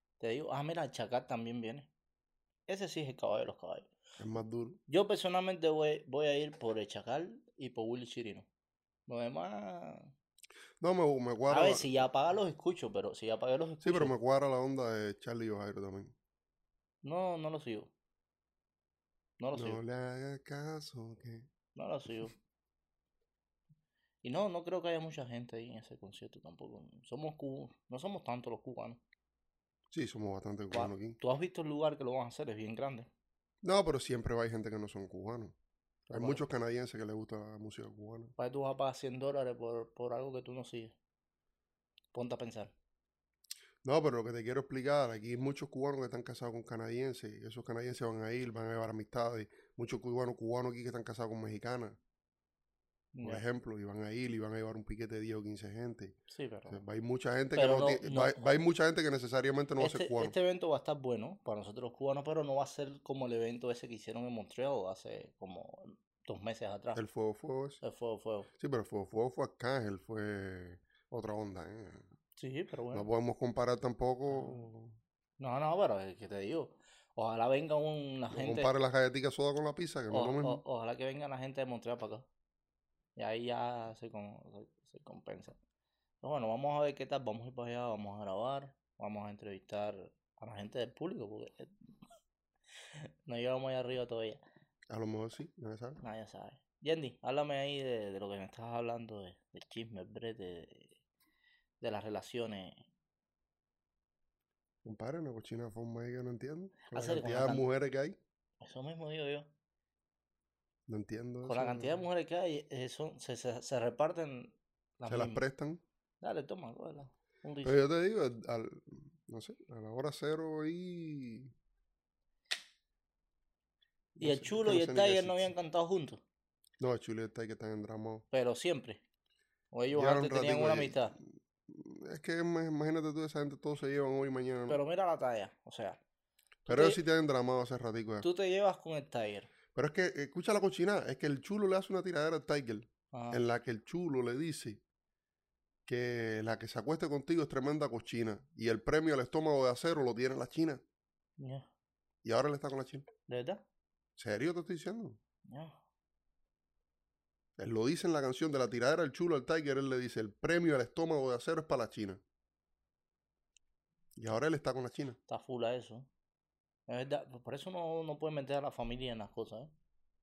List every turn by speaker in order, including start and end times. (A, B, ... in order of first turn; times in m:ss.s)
0:00.2-0:01.9 A
0:02.7-0:03.9 A
0:04.2-0:04.8 B
0:04.9-0:08.5 A
0:09.1-0:10.1 A
0:10.8-0:11.8 B
0:11.5-0:14.1 A
0:13.8-0:16.1 B
0:17.0-0:17.9 A
0:19.4-0:19.8 A
0:19.5-0:21.5 B
0:21.8-0:22.3 A
0:24.2-0:29.0 A
0:29.9-0:31.2 B
0:30.7-0:33.1 A
0:33.6-0:35.6 B
0:36.1-0:36.4 A
0:36.1-0:38.3 B
0:38.4-0:40.9 A
0:42.1-0:42.7 A
0:43.8-0:52.0 B
0:53.1-0:53.4 A
0:53.2-0:56.2 B
0:56.3-0:56.8 A
0:56.7-1:00.3 B
0:57.5-0:58.4 A
0:59.8-1:07.0 A
1:06.9-1:07.8 B
1:07.8-1:08.5 A
1:08.5-1:12.1 B
1:12.4-1:13.1 A
1:12.9-1:15.0 B
1:14.3-1:14.7 A
1:15.4-1:18.7 A
1:18.3-1:20.6 B
1:20.1-1:22.2 A
1:23.2-1:25.6 A
1:26.2-1:31.7 A
1:33.0-1:34.4 A
1:34.9-1:36.0 B
1:36.0-1:41.0 A
1:41.8-1:42.8 A
1:44.8-1:48.2 B
1:46.9-1:47.6 A
1:48.6-1:49.5 A
1:50.9-1:52.0 B
1:51.4-1:55.4 A
1:55.1-1:55.8 B
1:56.2-1:57.8 A
1:57.6-2:01.5 B
2:04.2-2:05.5 B
2:04.2-2:06.2 A
2:06.8-2:08.2 B
2:08.3-2:09.0 A
2:09.7-2:11.2 A
2:09.9-2:14.8 B
2:14.7-2:16.0 A
2:16.7-2:17.0 A
2:16.7-2:18.2 B
2:18.2-2:19.5 A
2:19.7-2:24.8 B
2:23.1-2:23.4 A
2:25.9-2:30.8 B
2:31.4-2:31.7 A
2:32.2-2:33.0 B
2:33.3-2:33.6 A
2:34.2-2:35.2 B
2:35.5-2:35.8 A
2:37.6-2:42.2 B
2:44.2-2:45.2 B
2:45.3-2:46.1 A
2:46.9-2:49.7 A